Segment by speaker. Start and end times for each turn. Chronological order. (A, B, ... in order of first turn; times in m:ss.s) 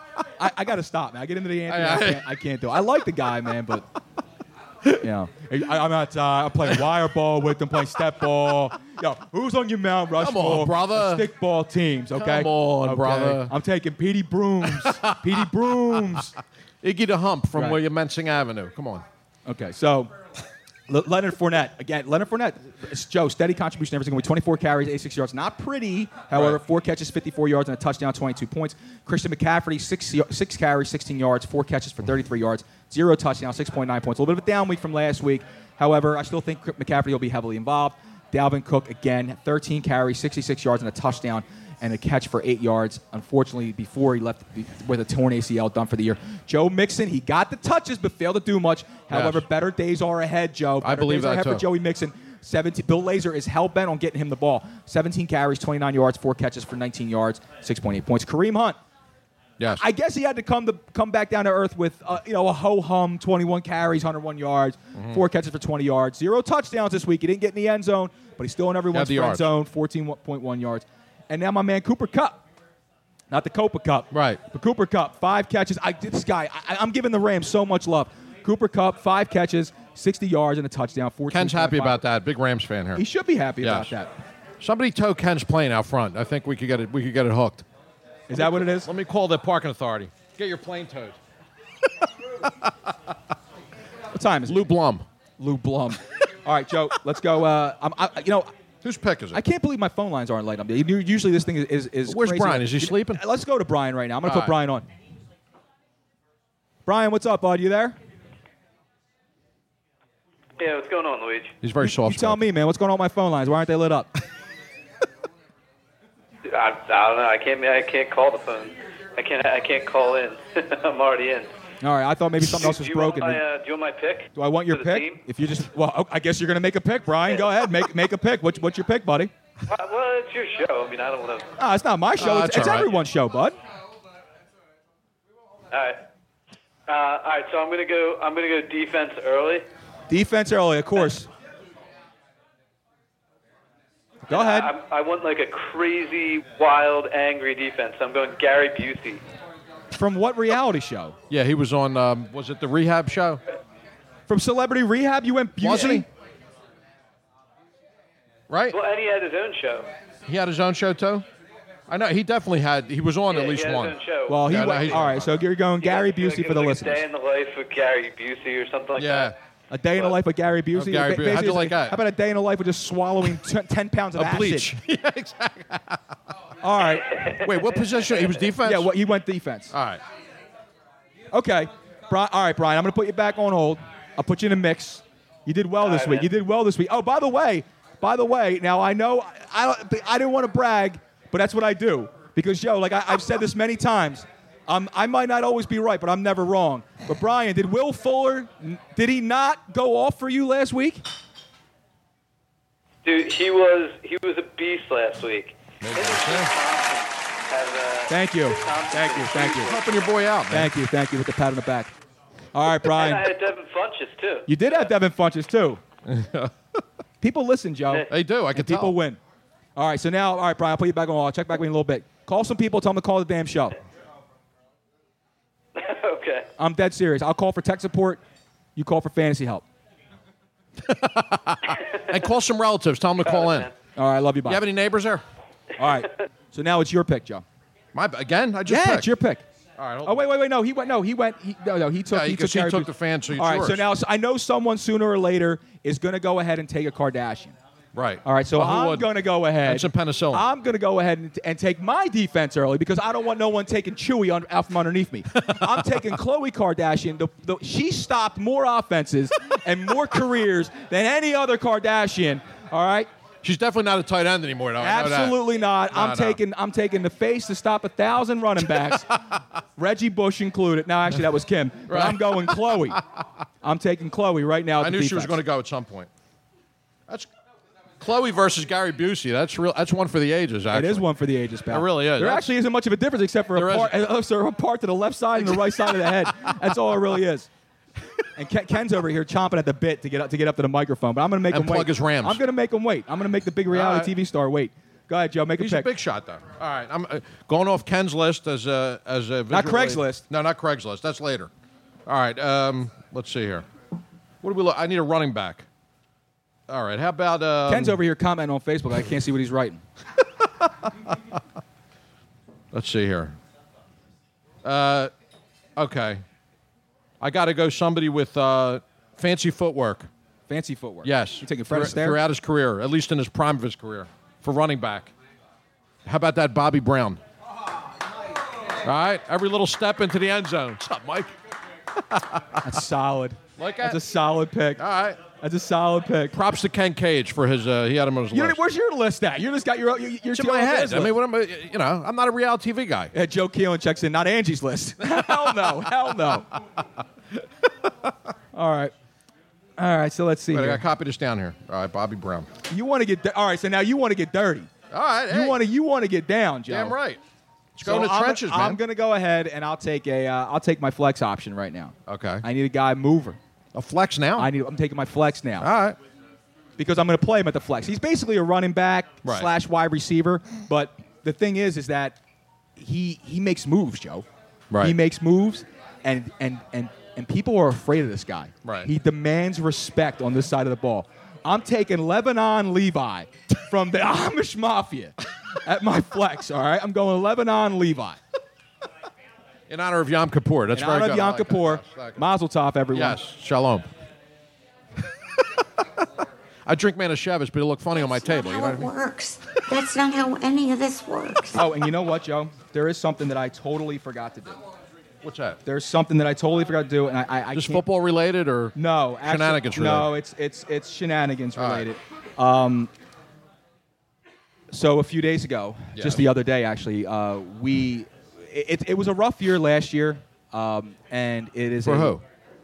0:00.4-0:03.9 A
0:01.7-0:02.3 B
0:05.0-0:16.3 A
0:10.2-0:11.3 B
0:12.1-0:13.5 B
0:14.6-0:16.2 B
0:16.8-0:19.0 B
0:17.5-0:17.8 A
0:19.5-0:20.1 A
0:20.9-0:58.8 A
0:26.3-0:26.6 B
0:49.1-0:49.5 B
0:50.8-0:51.7 B
0:59.6-0:59.8 B
0:59.8-1:12.4 A
1:05.0-1:05.2 B
1:08.9-1:09.5 B
1:13.3-1:22.0 A
1:14.1-1:14.4 B
1:21.3-1:23.0 B
1:23.0-1:24.1 A
1:23.6-1:23.9 B
1:24.6-1:27.6 B
1:28.3-1:28.9 A
1:28.3-1:31.2 B
1:34.1-1:34.7 A
1:34.5-1:35.1 B
1:35.4-1:38.5 A
1:38.8-1:39.4 B
1:39.3-1:44.9 A
1:42.1-1:43.2 B
1:44.2-1:44.6 B
1:46.9-1:48.0 A
1:50.6-1:51.6 C
1:51.6-1:52.4 B
1:51.8-1:54.1 A
1:56.5-2:01.5 C
2:01.8-2:03.4 A
2:02.6-2:05.2 C
2:04.4-2:09.3 A
2:07.3-2:07.8 C
2:09.7-2:11.5 C
2:11.6-2:13.6 A
2:12.2-2:13.0 B
2:15.7-2:16.0 C
2:16.9-2:19.6 C
2:20.1-2:21.3 A
2:24.3-2:24.7 A
2:24.3-2:29.2 C
2:29.9-2:31.2 A
2:31.3-2:33.4 B
2:34.3-2:36.1 A
2:35.6-2:36.0 B
2:38.5-2:38.8 B
2:38.7-2:39.9 C
2:40.3-2:41.3 B
2:41.9-2:45.4 B
2:43.3-2:44.6 C
2:44.3-2:47.0 A
2:45.8-2:49.4 C
2:49.0-2:49.4 B
2:49.7-2:54.7 A
2:50.7-2:52.0 B
2:54.2-2:56.0 B
2:56.6-2:57.1 A
2:56.8-2:58.5 C
2:57.4-2:58.9 B
2:58.6-2:59.7 A
2:59.7-3:00.0 B
3:01.3-3:21.0 A
3:05.8-3:06.3 C
3:23.0-3:30.1 C
3:25.8-3:26.5 B
3:28.1-3:29.8 A
3:29.5-3:30.7 B
3:30.5-3:31.9 A
3:32.5-3:33.3 A
3:32.8-3:34.9 C
3:34.5-3:35.8 A
3:36.1-3:36.5 B
3:37.2-3:39.2 A
3:38.1-3:39.0 B
3:39.8-3:43.8 A
3:45.8-3:46.5 C
3:46.6-3:48.2 A
3:48.8-3:49.6 A
3:50.8-3:53.7 B
3:53.2-3:53.7 C
3:54.0-3:54.6 A
3:54.5-3:55.2 B
3:55.8-3:57.4 A
3:57.9-3:59.1 B
3:58.7-3:59.4 A
3:59.8-4:00.3 B
4:00.0-4:07.6 A
4:02.1-4:03.9 B
4:07.9-4:10.5 B
4:08.2-4:23.1 A
4:15.4-4:16.2 B
4:23.4-4:26.4 B
4:24.8-4:29.1 A
4:29.8-4:33.0 A
4:31.9-4:33.0 B
4:33.6-4:35.4 A
4:34.8-4:36.1 B
4:38.0-4:41.1 B
4:40.7-4:47.5 A
4:41.7-4:42.5 B
4:43.5-4:44.0 B
4:45.4-4:46.5 B
4:48.4-4:55.9 A
4:51.5-4:52.4 B
4:53.7-4:54.1 B
4:55.6-5:01.5 B
4:59.5-5:00.2 A
5:02.1-5:03.7 B
5:04.4-5:05.7 B
5:06.7-5:08.0 B
5:07.7-5:09.8 A
5:12.7-5:13.4 B
5:14.6-5:15.1 B
5:15.8-5:16.2 B
5:17.2-5:20.1 B
5:20.5-5:22.2 A
5:21.0-5:25.1 B
5:26.1-5:27.2 B
5:28.8-5:31.3 B
5:32.0-5:32.8 B
5:32.6-5:34.8 A
5:33.6-5:34.0 B
5:34.8-5:35.2 B
5:35.4-5:36.4 A
5:36.3-5:38.6 B
5:38.3-5:41.2 A
5:40.3-5:43.1 B
5:43.1-5:46.5 A
5:45.1-5:45.8 B
5:48.5-5:48.9 A
5:49.8-5:50.8 A
5:50.5-5:52.5 B
5:52.7-5:54.7 A
5:54.9-5:55.6 B
5:55.3-5:57.0 A
5:56.7-5:57.2 B
5:57.8-5:58.8 B
5:57.8-6:03.4 A
6:02.1-6:02.4 B
6:03.7-6:04.5 B
6:04.4-6:05.7 A
6:05.6-6:06.0 B
6:06.8-6:12.2 A
6:09.2-6:09.5 B
6:12.8-6:14.3 A
6:14.7-6:15.0 B
6:14.8-6:28.2 A
6:18.6-6:18.9 B
6:29.7-6:32.2 B
6:30.7-6:33.2 A
6:32.9-6:33.9 B
6:36.7-6:38.9 B
6:38.0-6:41.7 D
6:41.6-6:44.6 A
6:45.2-6:45.6 B
6:45.6-6:47.9 A
6:47.5-6:50.1 B
6:48.8-6:52.9 A
6:51.6-6:51.9 B
6:54.7-7:02.2 A
6:56.0-6:56.3 B
7:01.8-7:02.2 B